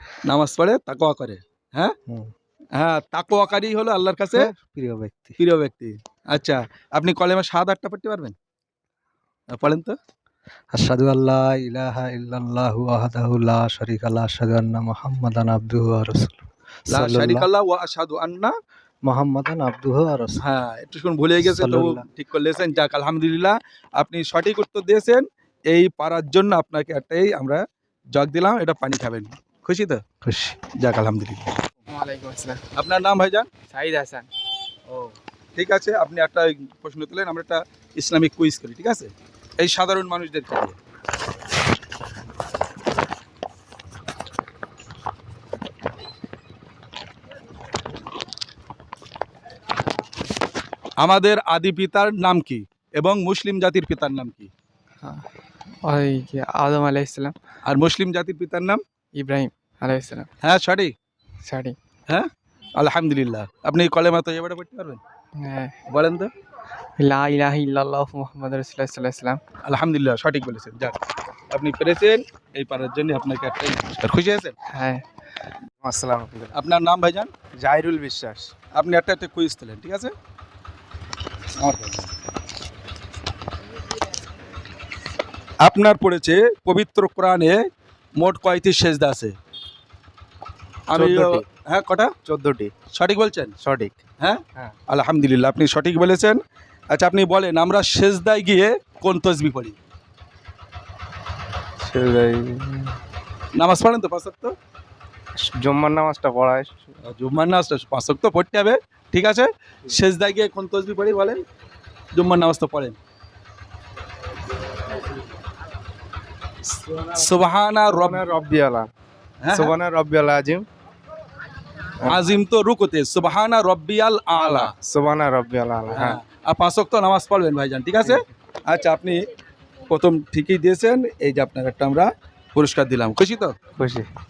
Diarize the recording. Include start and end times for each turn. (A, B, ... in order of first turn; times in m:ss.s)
0:00.2-0:01.9 A
0:02.8-0:04.5 A
0:04.3-0:05.4 B
0:05.4-0:08.3 A
0:09.5-0:09.9 A
0:10.7-0:17.5 B
0:16.9-0:18.5 A
0:19.0-0:20.4 B
0:20.4-0:27.6 A
0:21.4-0:22.0 B
0:28.1-0:30.0 A
0:30.2-0:30.6 B
0:30.8-0:31.5 A
0:31.9-0:32.6 C
0:32.8-0:33.5 A
0:33.7-0:34.3 C
0:34.9-0:40.8 A
0:51.0-0:54.5 A
0:55.8-0:57.3 C
0:57.6-0:58.8 A
0:59.1-1:00.3 C
1:00.4-1:00.9 A
1:01.4-1:01.8 C
1:02.1-1:05.0 A
1:05.4-1:05.7 C
1:05.9-1:06.3 A
1:07.0-1:09.4 C
1:09.6-1:11.0 A
1:11.5-1:14.5 A
1:14.7-1:15.0 C
1:15.8-1:16.6 D
1:16.5-1:17.3 A
1:17.5-1:18.5 D
1:18.7-1:20.1 A
1:21.6-1:22.1 A
1:25.6-1:27.6 A
1:28.2-1:29.3 A
1:30.9-1:32.1 A
1:30.9-1:31.4 D
1:32.2-1:32.7 D
1:32.9-1:33.5 A
1:33.6-1:34.0 D
1:34.2-1:39.8 A
1:41.8-1:43.0 D
1:43.6-1:44.5 A
1:45.4-1:46.9 D
1:47.0-1:51.4 A
1:52.1-1:53.0 A
1:57.1-1:58.2 A
1:57.9-1:58.9 D
1:59.4-1:59.8 A
1:59.5-2:00.6 D
2:02.0-2:04.7 A
2:04.3-2:06.2 D
2:05.9-2:09.2 A
2:09.9-2:13.5 A
2:13.8-2:14.0 D